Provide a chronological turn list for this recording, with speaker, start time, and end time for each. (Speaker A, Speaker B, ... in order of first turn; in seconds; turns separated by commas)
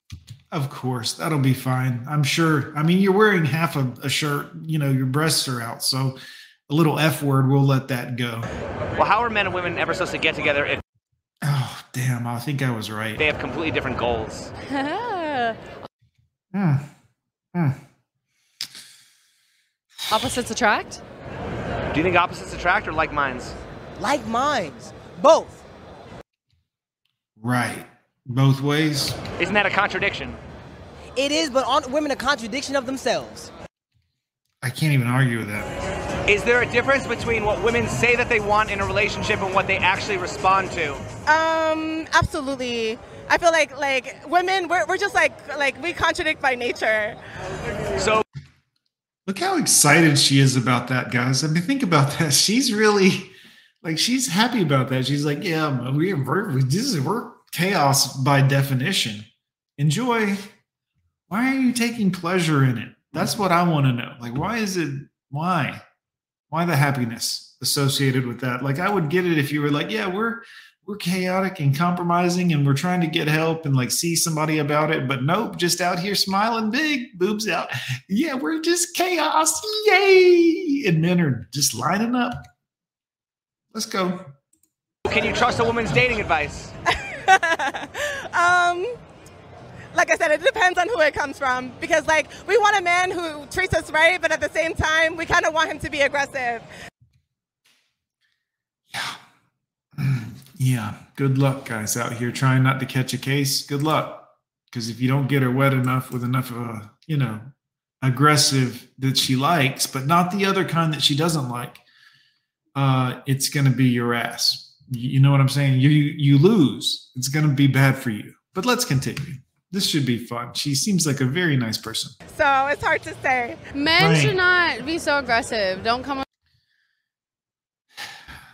Speaker A: 0.5-8.5, Speaker B: 9.0-10.8, Speaker A: 11.4-13.2, Speaker B: 13.2-14.5, Speaker C: 14.7-15.7, Speaker A: 16.5-16.9, Speaker A: 17.5-17.8, Speaker C: 20.1-21.0, Speaker B: 21.9-23.6, Speaker D: 24.0-25.6, Speaker A: 27.4-29.2, Speaker B: 29.4-30.4, Speaker D: 31.1-33.5, Speaker A: 34.6-35.7, Speaker B: 36.3-41.0, Speaker E: 41.3-47.2, Speaker B: 48.0-48.2, Speaker A: 49.2-59.3, Speaker A: 59.8-60.5, Speaker A: 61.3-65.8, Speaker A: 66.5-82.5, Speaker A: 83.7-84.3, Speaker B: 85.0-86.7, Speaker E: 86.9-88.9, Speaker E: 89.9-96.7, Speaker A: 98.9-99.2, Speaker A: 100.0-107.5, Speaker A: 108.0-111.8, Speaker A: 112.8-122.1, Speaker E: 122.3-123.7, Speaker C: 123.7-126.2, Speaker A: 124.0-124.4